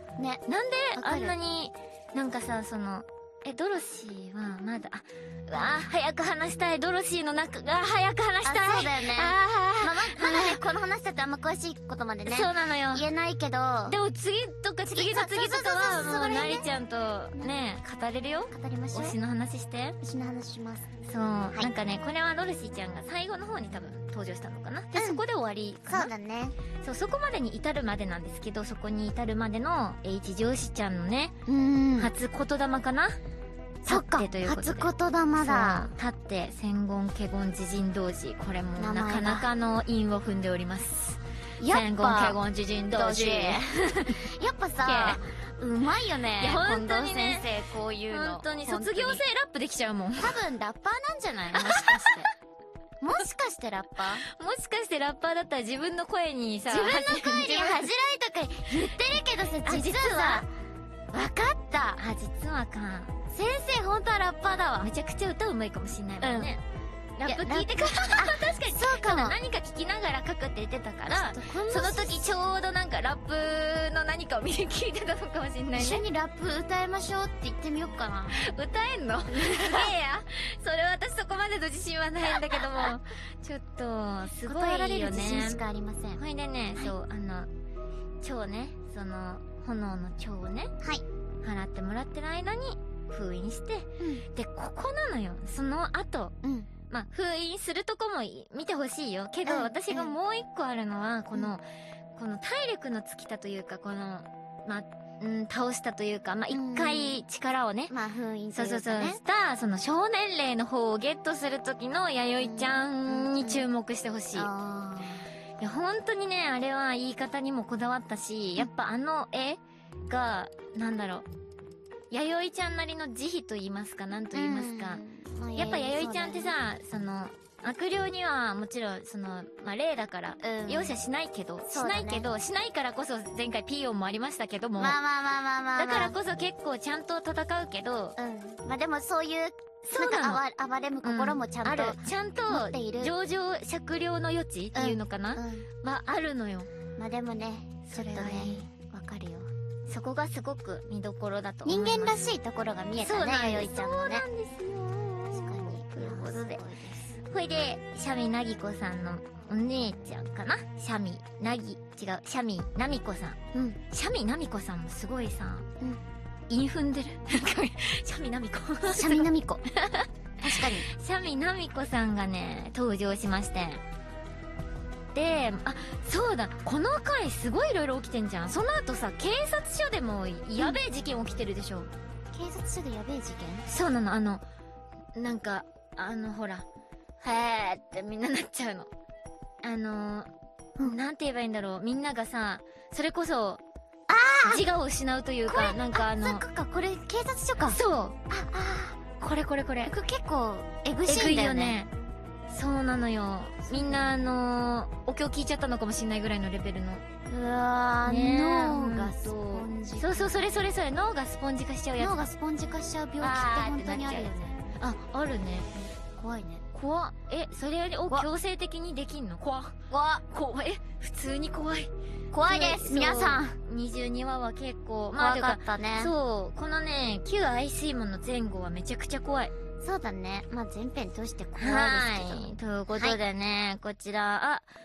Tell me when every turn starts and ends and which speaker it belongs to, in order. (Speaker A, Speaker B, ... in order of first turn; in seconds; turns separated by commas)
Speaker A: 0.2-0.4, Speaker B: 0.5-10.6, Speaker A: 0.9-1.4, Speaker A: 5.5-5.9, Speaker A: 8.4-14.0, Speaker B: 12.2-13.0, Speaker B: 13.9-20.0, Speaker A: 14.9-16.7, Speaker A: 18.5-19.2, Speaker A: 20.0-20.9, Speaker B: 21.1-26.1, Speaker A: 24.9-25.2, Speaker A: 25.9-26.6, Speaker B: 26.8-31.3, Speaker A: 31.5-32.1, Speaker B: 32.0-33.2, Speaker A: 33.8-35.9, Speaker B: 33.9-44.2, Speaker A: 38.8-39.5, Speaker A: 41.6-42.4, Speaker A: 42.9-49.2, Speaker B: 44.8-45.2, Speaker B: 46.4-47.5, Speaker B: 48.1-50.4, Speaker A: 50.2-52.3, Speaker B: 51.5-52.3, Speaker A: 53.0-54.3, Speaker B: 54.2-57.9, Speaker A: 56.7-60.5, Speaker B: 59.6-60.5, Speaker A: 61.1-62.0, Speaker B: 62.0-63.1, Speaker A: 63.3-64.9, Speaker B: 64.8-66.6, Speaker A: 66.2-66.6, Speaker B: 67.2-76.0, Speaker A: 67.2-69.4, Speaker A: 71.1-72.3, Speaker A: 75.7-78.4, Speaker B: 78.3-85.6, Speaker A: 79.4-79.9, Speaker A: 84.4-86.2, Speaker B: 86.2-87.5, Speaker B: 88.2-90.7, Speaker B: 91.4-96.3, Speaker A: 96.4-96.7, Speaker B: 96.9-101.6, Speaker A: 99.5-100.1, Speaker B: 102.2-107.9, Speaker A: 106.5-107.2, Speaker A: 107.9-109.2, Speaker B: 108.5-114.5, Speaker A: 112.4-113.6, Speaker A: 114.3-115.3, Speaker B: 115.6-121.3, Speaker B: 122.1-125.0, Speaker A: 124.3-126.6, Speaker B: 125.5-135.0, Speaker A: 130.4-131.0, Speaker A: 131.7-132.3, Speaker A: 134.8-136.2, Speaker B: 135.8-138.2, Speaker A: 138.2-143.1, Speaker B: 139.9-140.4, Speaker B: 141.0-146.7, Speaker A: 144.7-145.7, Speaker A: 147.0-149.5, Speaker B: 147.9-148.7, Speaker B: 149.9-152.2, Speaker A: 151.7-154.3, Speaker B: 153.0-156.6, Speaker A: 155.3-157.2, Speaker B: 157.3-163.4, Speaker B: 163.9-165.7, Speaker B: 166.5-169.3, Speaker A: 168.9-169.6, Speaker B: 169.9-173.8, Speaker A: 170.4-170.9, Speaker B: 175.1-181.9, Speaker A: 182.3-183.7, Speaker B: 183.7-184.4, Speaker B: 185.2-186.7, Speaker B: 187.2-188.9, Speaker B: 189.6-193.6, Speaker A: 194.1-194.6, Speaker B: 194.4-196.4, Speaker A: 195.5-197.8, Speaker B: 197.7-198.2, Speaker A: 198.3-199.0, Speaker B: 199.2-199.9, Speaker A: 199.8-201.8, Speaker B: 201.1-201.9, Speaker B: 202.5-207.0, Speaker A: 203.7-204.1, Speaker A: 207.3-210.4, Speaker B: 208.1-212.3, Speaker A: 212.0-214.6, Speaker B: 213.2-215.7, Speaker A: 215.8-216.7, Speaker B: 216.7-219.8, Speaker A: 219.9-220.2, Speaker B: 220.3-221.9, Speaker A: 222.3-223.6, Speaker B: 222.4-229.5, Speaker A: 225.2-226.1, Speaker A: 229.8-233.2, Speaker B: 231.6-234.7